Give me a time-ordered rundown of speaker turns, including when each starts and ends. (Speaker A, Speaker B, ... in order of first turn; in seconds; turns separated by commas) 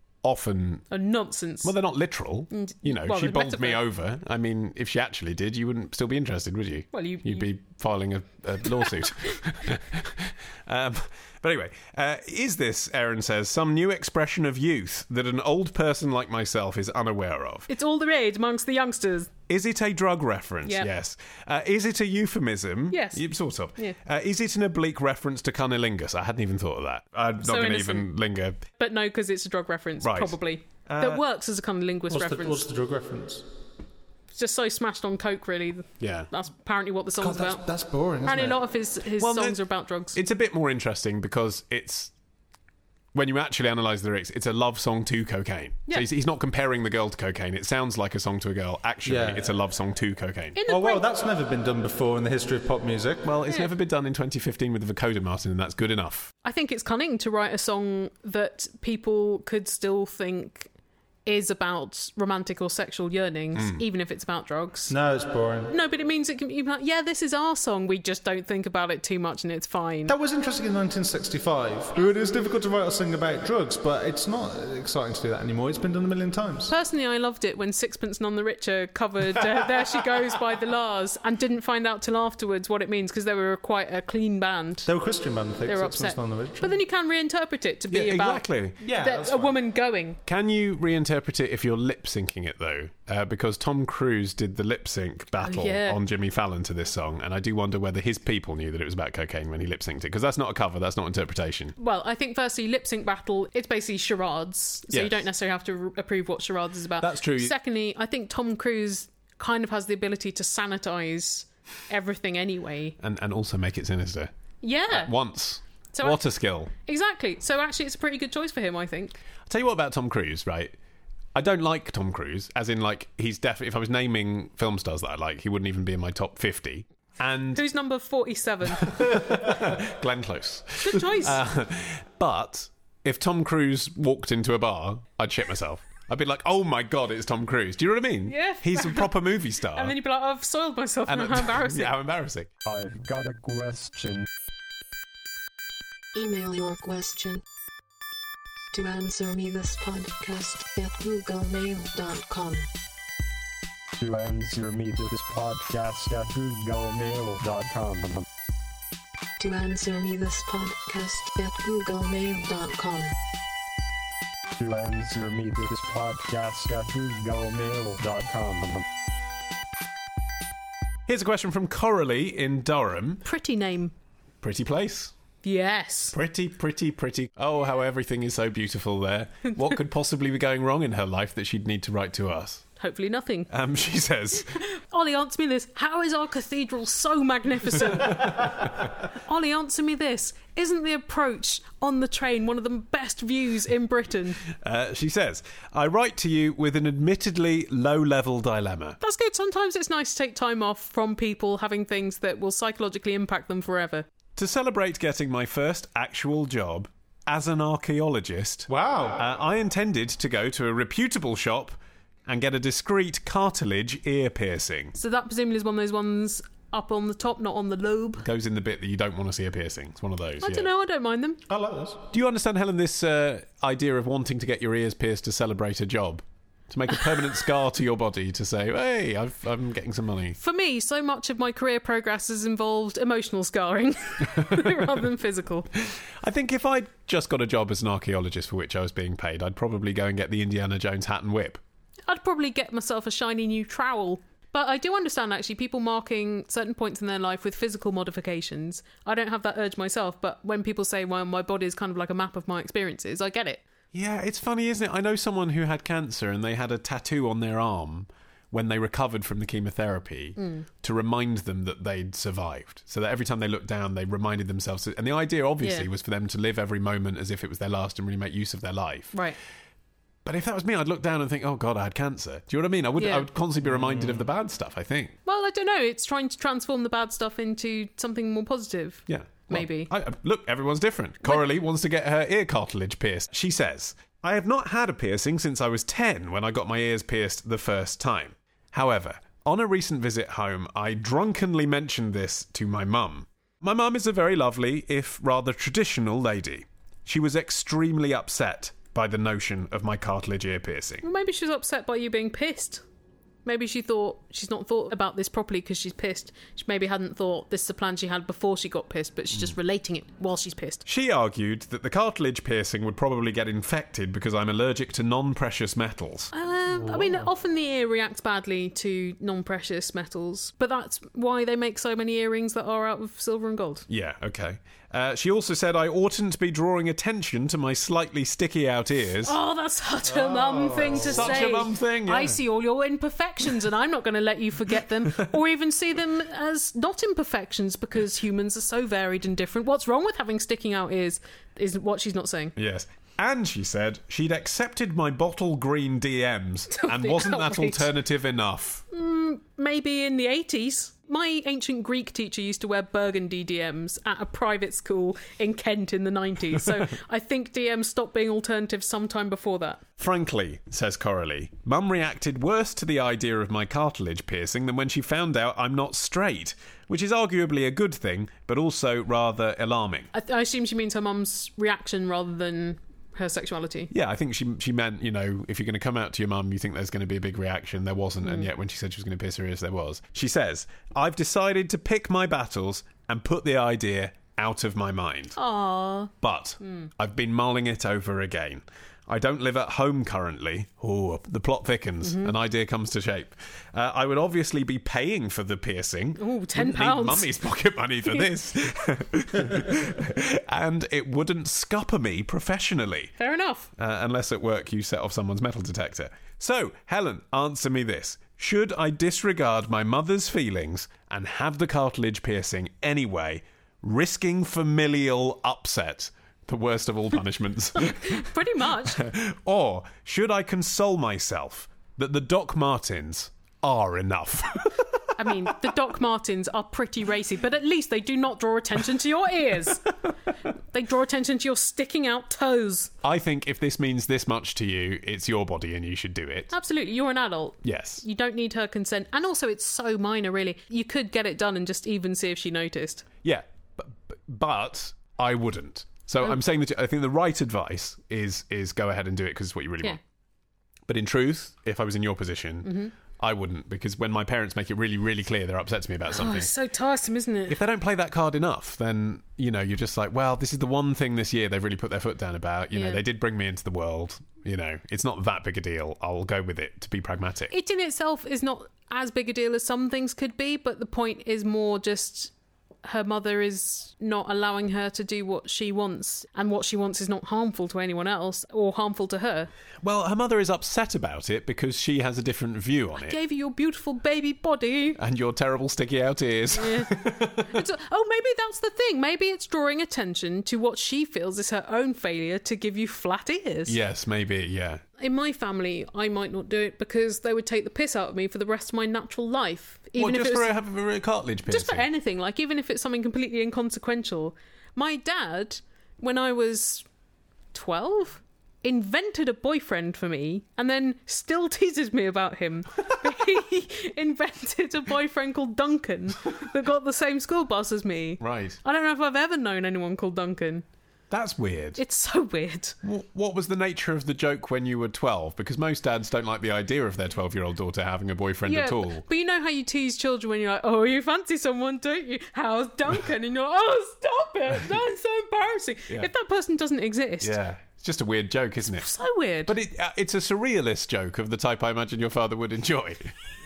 Speaker A: 0.2-0.9, Speaker B: 0.9-1.7, Speaker A: 1.6-17.7, Speaker B: 2.5-3.8, Speaker B: 6.9-7.5, Speaker B: 17.7-19.3, Speaker A: 19.5-28.6, Speaker B: 20.6-20.9, Speaker B: 22.9-23.2, Speaker B: 27.4-28.1, Speaker B: 28.8-32.7, Speaker A: 30.0-30.4, Speaker A: 30.9-31.2, Speaker C: 32.1-33.5, Speaker B: 34.3-37.6, Speaker A: 36.0-36.3, Speaker C: 37.2-38.6, Speaker B: 38.2-40.2, Speaker A: 39.2-42.1, Speaker A: 43.1-50.6, Speaker C: 49.0-49.4, Speaker B: 50.6-51.1, Speaker C: 50.7-53.3, Speaker A: 53.2-56.3, Speaker B: 56.4-60.7, Speaker B: 61.3-65.0, Speaker A: 63.5-63.8, Speaker C: 64.9-65.7, Speaker B: 65.7-70.2, Speaker C: 70.1-76.7, Speaker B: 76.7-84.9, Speaker C: 84.8-86.8, Speaker B: 85.7-90.2, Speaker A: 87.9-88.8, Speaker C: 88.8-89.5, Speaker A: 90.3-101.8, Speaker B: 95.4-96.0, Speaker B: 101.8-113.0, Speaker A: 104.9-105.3, Speaker A: 107.0-107.5, Speaker A: 113.0-114.3, Speaker B: 114.6-115.1, Speaker A: 114.9-116.7, Speaker B: 115.9-116.2, Speaker B: 116.7-119.2, Speaker A: 119.5-120.8, Speaker A: 121.3-127.7, Speaker B: 127.5-128.9, Speaker A: 128.7-139.9, Speaker B: 130.8-131.4, Speaker B: 138.3-139.1, Speaker B: 139.7-141.9, Speaker A: 141.1-142.5, Speaker D: 142.7-144.3, Speaker E: 146.2-147.4, Speaker E: 148.7-152.7, Speaker D: 154.0-158.3, Speaker E: 159.4-163.1, Speaker D: 164.6-168.8, Speaker A: 171.1-173.2, Speaker B: 173.2-173.9, Speaker A: 174.4-175.1, Speaker B: 175.4-176.2, Speaker A: 176.1-182.7, Speaker B: 182.8-183.5, Speaker A: 183.5-184.6, Speaker B: 184.5-194.4, Speaker A: 194.5-199.0, Speaker B: 199.0-204.1, Speaker A: 204.4-215.0, Speaker C: 208.7-209.2, Speaker B: 215.0-218.3, Speaker A: 218.2-220.7, Speaker B: 220.4-221.4, Speaker C: 221.5-222.0, Speaker A: 222.1-230.4, Speaker B: 230.4-235.7, Speaker A: 236.2-241.6, Speaker B: 242.1-253.6, Speaker A: 253.9-269.2, Speaker B: 260.4-260.7, Speaker B: 265.6-265.9, Speaker A: 270.2-275.2, Speaker B: 273.0-273.3, Speaker C: 273.7-274.2, Speaker B: 275.3-279.9, Speaker A: 279.1-301.0, Speaker B: 301.0-302.8, Speaker B: 303.4-310.8, Speaker A: 310.9-316.3, Speaker B: 316.3-323.9, Speaker A: 323.9-329.4, Speaker B: 329.2-342.5, Speaker C: 330.1-331.4, Speaker A: 331.0-332.4, Speaker A: 342.6-348.8, Speaker B: 346.7-347.9, Speaker B: 348.9-359.8, Speaker A: 360.0-370.1, Speaker B: 370.1-373.9, Speaker A: 373.9-385.4, Speaker B: 378.2-378.5, Speaker B: 385.4-386.9, Speaker A: 386.2-403.1, Speaker B: 392.0-392.3, Speaker B: 396.2-397.3, Speaker B: 403.2-403.7, Speaker A: 403.8-425.6, Speaker B: 417.8-419.0, Speaker B: 425.2-429.9, Speaker B: 430.7-432.9, Speaker A: 433.0-436.5, Speaker B: 436.5-443.1, Speaker A: 437.6-438.0, Speaker A: 443.2-450.0, Speaker A: 450.9-456.5, Speaker B: 452.6-452.9, Speaker B: 456.1-457.6, Speaker A: 457.5-467.5, Speaker B: 462.7-463.0, Speaker B: 467.5-472.3, Speaker B: 472.8-479.5, Speaker A: 479.8-483.2, Speaker B: 483.0-485.0, Speaker A: 485.0-487.6, Speaker B: 486.5-493.8, Speaker A: 493.7-494.8, Speaker B: 495.0-500.5, Speaker A: 500.0-501.9, Speaker B: 501.5-506.9, Speaker B: 507.5-520.6, Speaker A: 518.2-518.6, Speaker A: 521.1-521.8, Speaker B: 521.8-522.8, Speaker A: 522.8-529.1, Speaker B: 528.5-537.4, Speaker A: 537.2-538.9, Speaker B: 538.8-539.5, Speaker A: 539.5-543.1